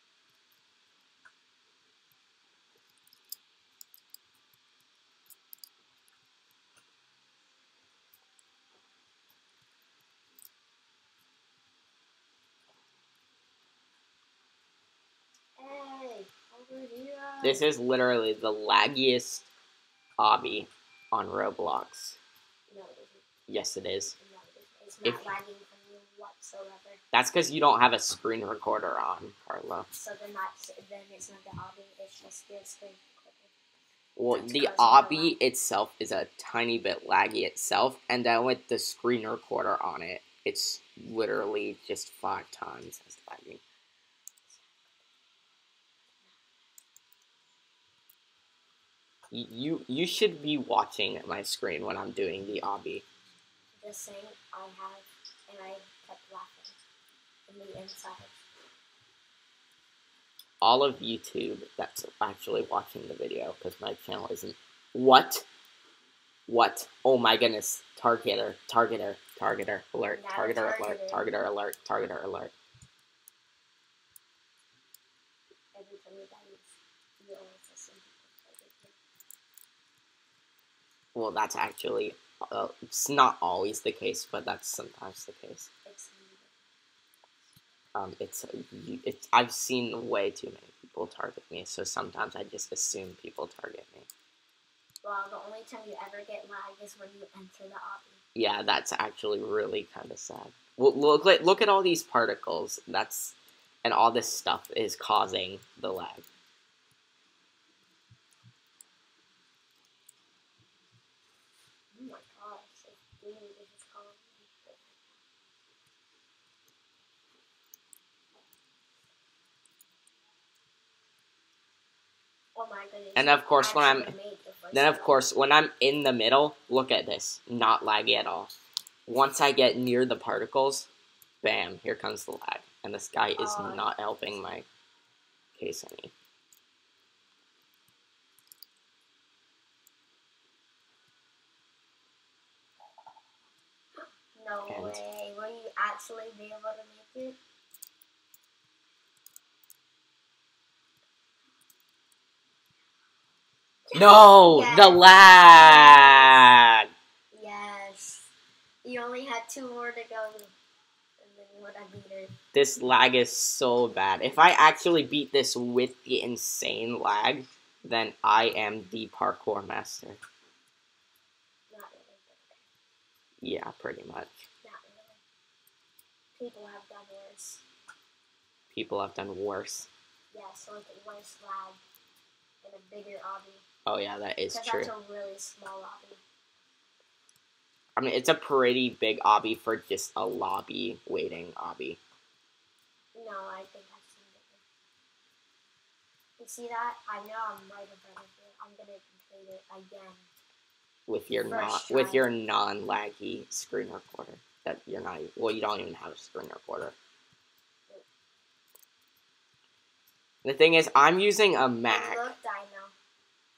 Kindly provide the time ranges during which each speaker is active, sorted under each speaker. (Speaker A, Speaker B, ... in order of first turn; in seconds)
Speaker A: 15.6-17.7, 22.7-23.2, 24.2-27.0, 29.9-33.5, 34.3-35.4, 53.8-56.8, 57.5-58.4, 70.1-71.3, 75.7-79.0, 85.8-86.7, 95.0-98.2, 111.9-115.2, 122.5-125.2, 133.4-133.9, 143.9-147.4, 153.9-156.5, 157.3-158.3, 158.8-160.5, 161.2-162.3, 171.7-172.7, 174.6-175.2, 176.3-177.6, 180.3-181.8, 182.6-183.6, 184.5-186.2, 193.1-194.6, 196.4-200.3, 201.4-202.3, 211.9-212.9
Speaker B: 17.4-19.5, 20.2-22.2, 23.5-24.1, 25.0-25.3, 27.1-29.9, 34.2-43.6, 49.3-53.0, 60.6-65.5, 66.5-72.5, 81.1-85.7, 87.9-94.1, 98.3-106.3, 123.1-124.1, 124.7-128.5, 129.1-130.9, 131.4-134.7, 135.5-136.1, 144.7-145.0, 153.9-156.9, 162.5-170.2, 173.4-174.4, 178.7-179.9, 183.8-184.9, 188.0-192.0, 201.1-206.9, 210.4-212.3